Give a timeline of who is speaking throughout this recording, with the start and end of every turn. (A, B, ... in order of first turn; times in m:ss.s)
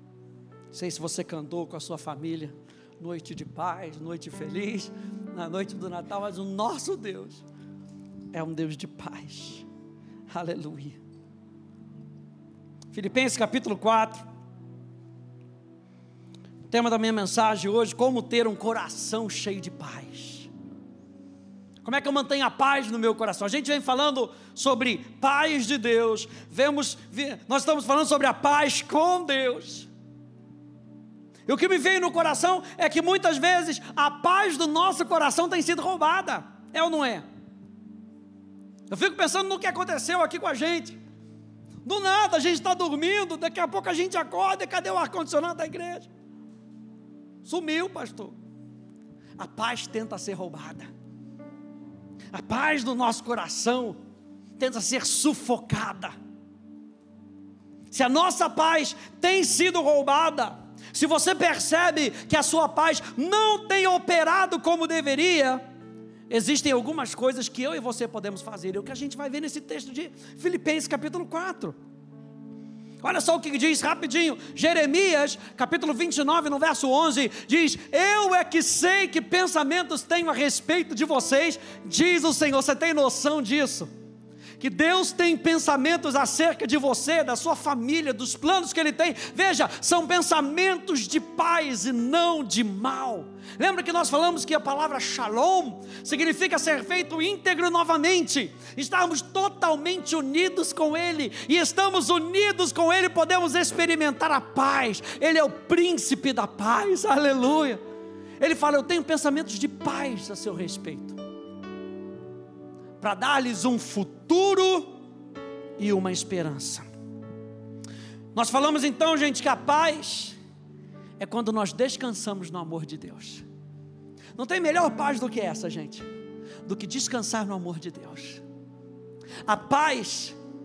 0:00.7-0:07.4 A
0:08.3-0:09.6 A
0:10.3-0:11.0 A
0:12.9-0:14.2 A
0:16.7-0:20.5 A
0:21.8-0:29.9 A
0:31.5-0:37.2 A
0:38.9-0:41.0 A
0:41.8-0:46.1 A
0:47.4-0:48.3 A
0:49.4-0:50.9 A
0:52.3-0:54.0 A
0:54.6-0:56.1 A
0:57.9-1:05.6 A
1:06.3-1:11.7 A
1:13.0-1:23.9 A
1:24.6-1:47.8 A
1:48.4-1:51.2 A
1:53.0-1:54.9 A
1:55.8-1:56.8 A
1:58.3-2:00.4 A
2:01.2-2:03.4 A
2:04.3-2:06.0 A
2:06.6-2:08.4 A
2:09.4-2:10.4 A